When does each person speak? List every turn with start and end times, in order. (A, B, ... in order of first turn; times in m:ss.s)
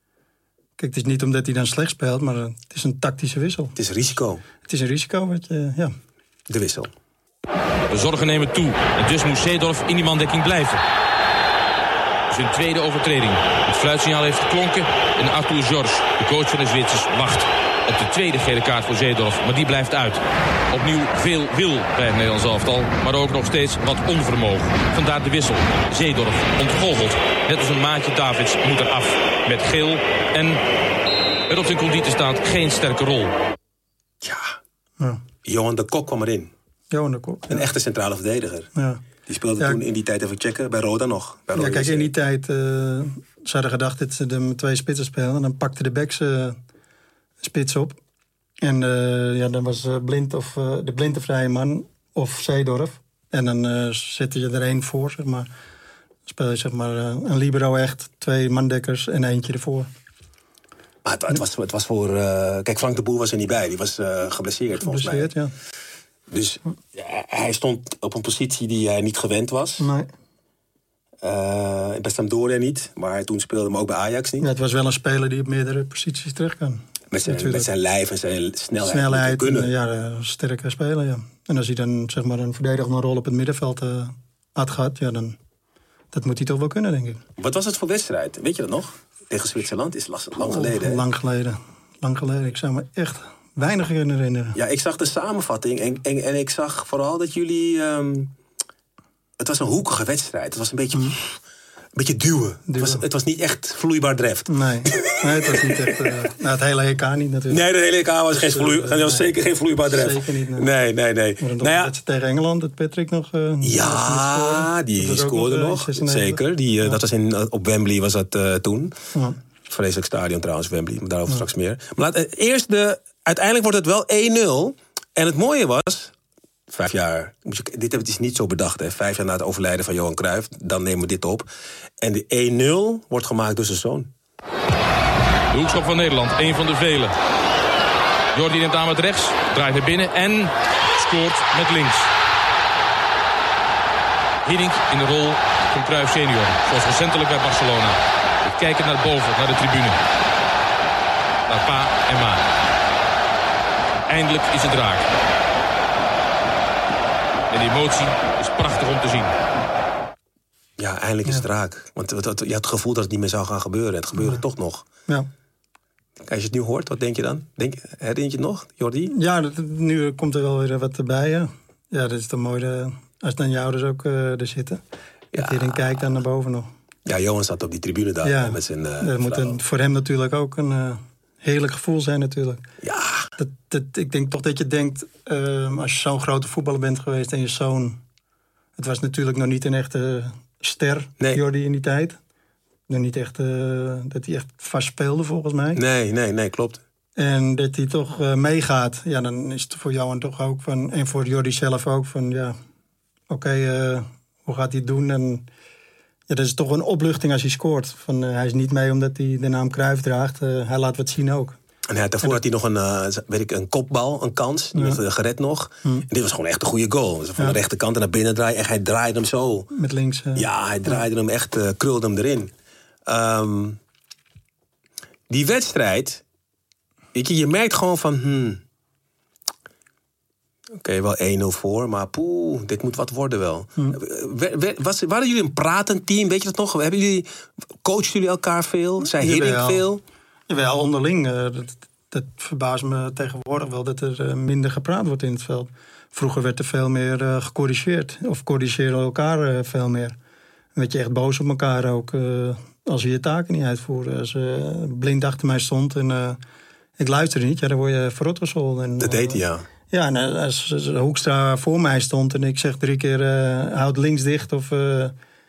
0:00.8-0:03.8 A
0:03.8-0:04.4 B
0:04.7-0:05.9 A
0:06.5-0:06.9 B
0:07.9-0:10.8 C
0:12.3-0:30.6 C
0:31.5-0:33.4 C
0:34.2-0:34.6 B
0:35.4-0:36.5 B
0:36.9-0:37.6 A
0:37.5-0:38.7 B
0:38.7-0:39.0 A
0:39.2-0:42.1 B
0:41.5-0:46.6 A
0:47.4-0:48.0 A
0:48.6-0:55.5 A
0:56.3-0:59.9 A
1:01.0-1:05.3 B
1:04.8-1:05.5 A
1:06.3-1:09.9 B
1:09.8-1:10.1 A
1:11.2-1:14.5 B
1:14.4-1:17.7 A
1:17.1-1:19.7 B
1:18.8-1:25.4 A
1:26.1-1:27.2 A
1:27.4-1:31.0 B
1:30.4-1:34.6 A
1:34.5-1:38.3 B
1:39.4-1:41.4 B
1:41.9-1:46.0 B
1:42.7-1:43.0 A
1:44.5-1:47.6 A
1:47.5-1:51.9 B
1:48.3-1:49.3 A
1:49.9-1:50.7 A
1:51.4-1:57.0 A
1:53.6-1:59.0 B
1:59.6-2:06.1 B
2:06.7-2:11.5 B
2:12.0-2:14.1 B
2:15.5-2:17.1 C
2:18.3-2:22.1 C
2:24.4-2:30.0 C
2:31.5-2:32.5 C
2:34.1-2:35.1 C
2:37.5-2:39.4 C
2:40.8-2:44.9 B
2:46.2-2:49.1 B
2:49.1-2:54.8 A
2:55.3-2:56.0 B
2:55.3-2:56.7 A
2:57.0-2:59.6 B
2:58.2-3:02.6 A
3:02.8-3:03.3 B
3:03.4-3:08.0 A
3:08.8-3:12.2 A
3:12.9-3:15.8 A
3:15.7-3:16.8 B
3:17.2-3:22.5 A
3:23.3-3:25.4 A
3:26.3-3:31.6 A
3:31.9-3:39.7 B
3:34.7-3:35.0 A
3:39.7-3:41.0 A
3:40.4-3:42.5 B
3:43.0-3:43.8 B
3:45.3-3:46.2 B
3:47.1-3:48.6 B
3:50.8-3:57.3 B
3:57.8-4:00.0 B
3:59.0-3:59.9 A
4:00.5-4:10.1 A
4:10.8-4:16.4 A
4:17.0-4:25.1 A
4:19.0-4:19.6 B